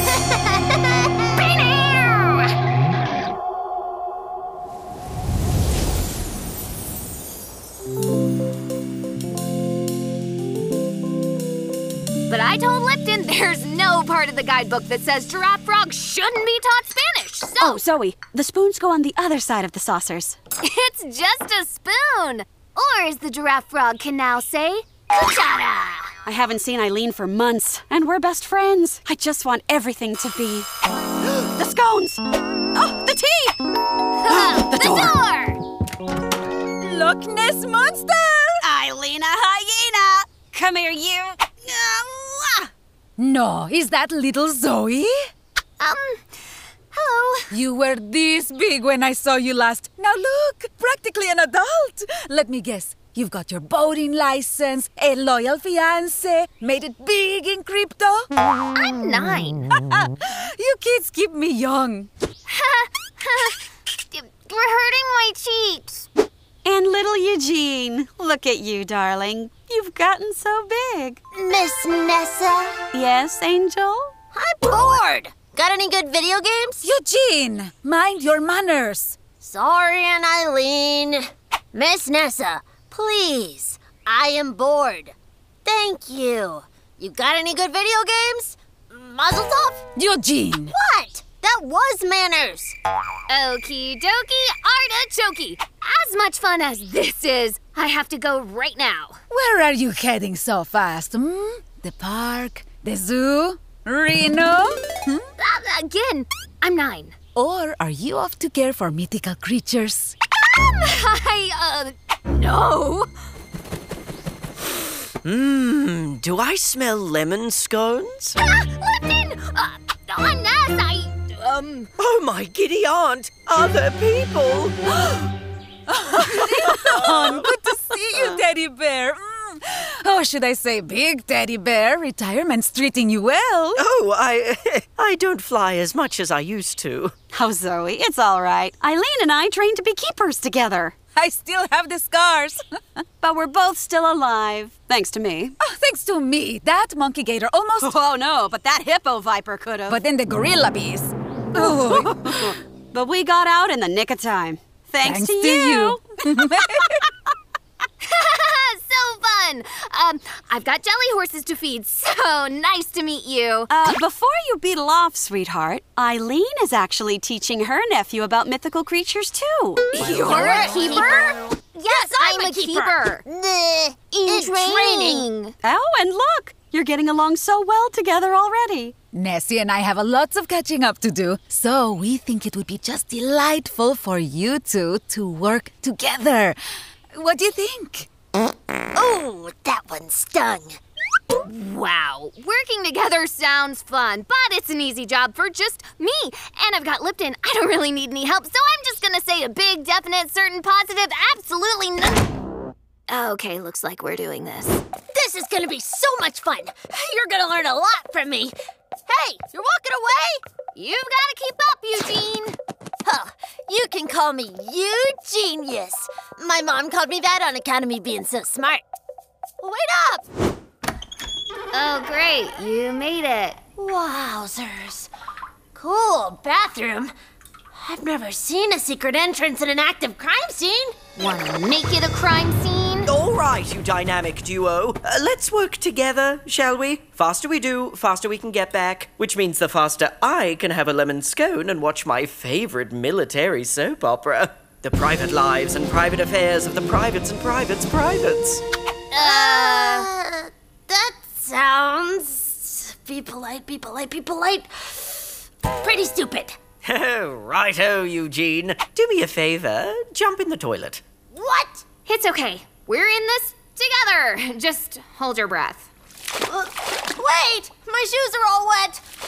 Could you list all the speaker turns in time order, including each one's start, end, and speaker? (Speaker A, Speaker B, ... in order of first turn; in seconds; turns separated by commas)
Speaker A: 0.3-0.9, Speaker B: 1.3-2.5, Speaker B: 12.3-17.8, Speaker C: 17.6-20.4, Speaker B: 20.6-24.9, Speaker A: 25.1-26.1, Speaker C: 26.2-30.7, Speaker C: 31.2-32.2, Speaker C: 32.7-33.6, Speaker B: 34.2-35.6, Speaker C: 34.3-35.2, Speaker D: 36.8-38.7, Speaker C: 38.6-42.7, Speaker A: 41.7-42.0, Speaker D: 43.2-45.1, Speaker B: 45.8-46.1, Speaker A: 47.0-47.4, Speaker D: 47.5-58.3, Speaker B: 58.6-59.6, Speaker D: 59.7-62.1, Speaker B: 62.5-66.1, Speaker C: 66.7-71.2, Speaker A: 71.3-72.8, Speaker C: 72.9-74.1, Speaker A: 74.3-76.9, Speaker D: 76.8-79.2, Speaker A: 79.4-89.8, Speaker D: 90.0-90.8, Speaker A: 90.7-92.8, Speaker B: 93.3-99.2, Speaker D: 99.3-105.2, Speaker B: 105.4-107.2, Speaker D: 107.4-110.2, Speaker B: 110.5-113.1, Speaker E: 115.2-118.4, Speaker B: 118.4-121.9, Speaker E: 122.0-125.0, Speaker D: 125.9-133.8, Speaker E: 126.3-127.6, Speaker E: 133.8-137.1, Speaker C: 137.3-141.0, Speaker D: 141.2-142.6, Speaker C: 143.2-145.6, Speaker D: 145.6-148.0, Speaker C: 147.8-150.0, Speaker D: 149.9-152.5, Speaker C: 151.6-156.0, Speaker D: 155.0-157.0, Speaker B: 158.0-163.7, Speaker C: 163.7-170.7, Speaker B: 169.9-173.2, Speaker A: 170.2-175.3, Speaker B: 174.1-175.6, Speaker C: 175.6-178.9, Speaker D: 179.1-186.6, Speaker D: 187.1-188.1, Speaker A: 188.9-190.8, Speaker B: 191.3-202.3, Speaker B: 203.1-204.8, Speaker A: 205.1-208.6, Speaker A: 209.1-210.4, Speaker B: 210.8-212.6, Speaker A: 213.1-218.8, Speaker A: 219.6-220.2, Speaker B: 221.7-223.6, Speaker A: 223.8-225.1, Speaker A: 225.7-227.1, Speaker A: 227.7-230.9, Speaker B: 231.2-233.1, Speaker E: 233.1-248.6, Speaker A: 249.1-256.6, Speaker B: 249.2-250.1, Speaker E: 256.8-261.1, Speaker A: 261.3-261.8, Speaker B: 262.1-265.9, Speaker A: 266.5-269.0